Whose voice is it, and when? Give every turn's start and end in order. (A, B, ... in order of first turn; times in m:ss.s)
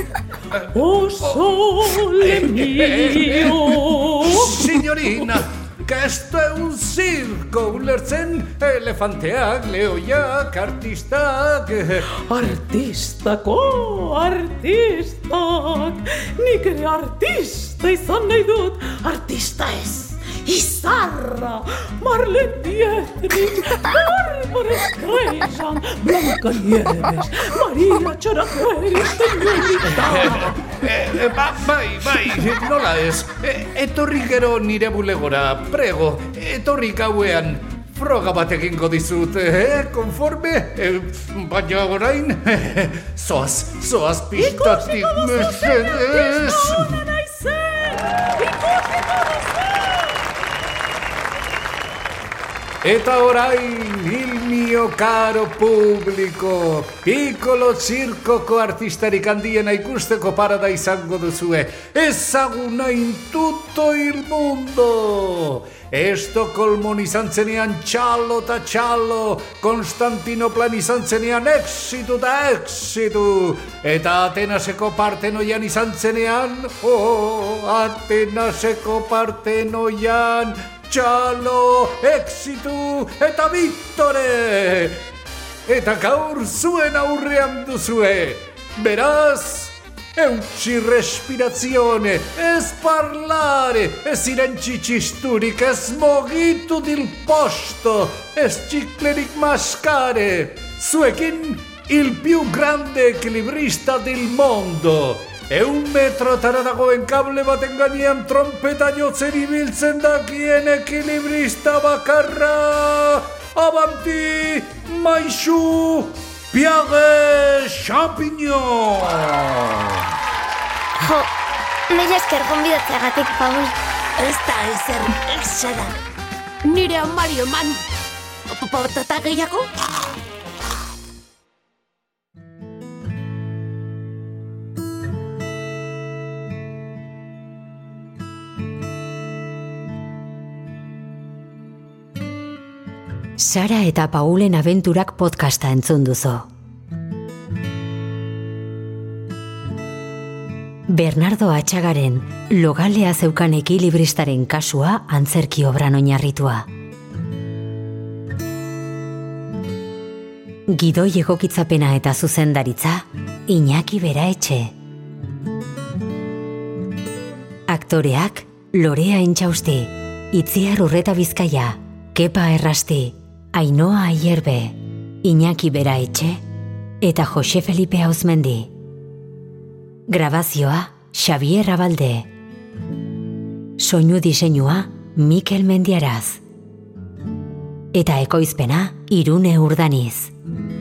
0:00.7-0:04.6 A
0:02.0-0:12.1 B
0:12.2-0:30.6 A
0:30.1-0:47.0 B
0:44.3-0:50.2 A
0:52.8-1:25.0 B
1:25.7-2:00.0 B
2:01.0-2:01.3 C
2:01.9-2:03.8 C
2:04.2-2:06.0 D
2:06.6-2:07.8 D
2:08.5-2:09.7 D
2:23.4-2:26.5 E
2:30.9-2:36.7 E
2:40.7-2:44.7 E
2:47.7-2:56.4 E
2:57.0-2:58.7 E
3:00.1-3:02.3 E
3:03.8-3:06.4 E
3:07.9-3:10.3 E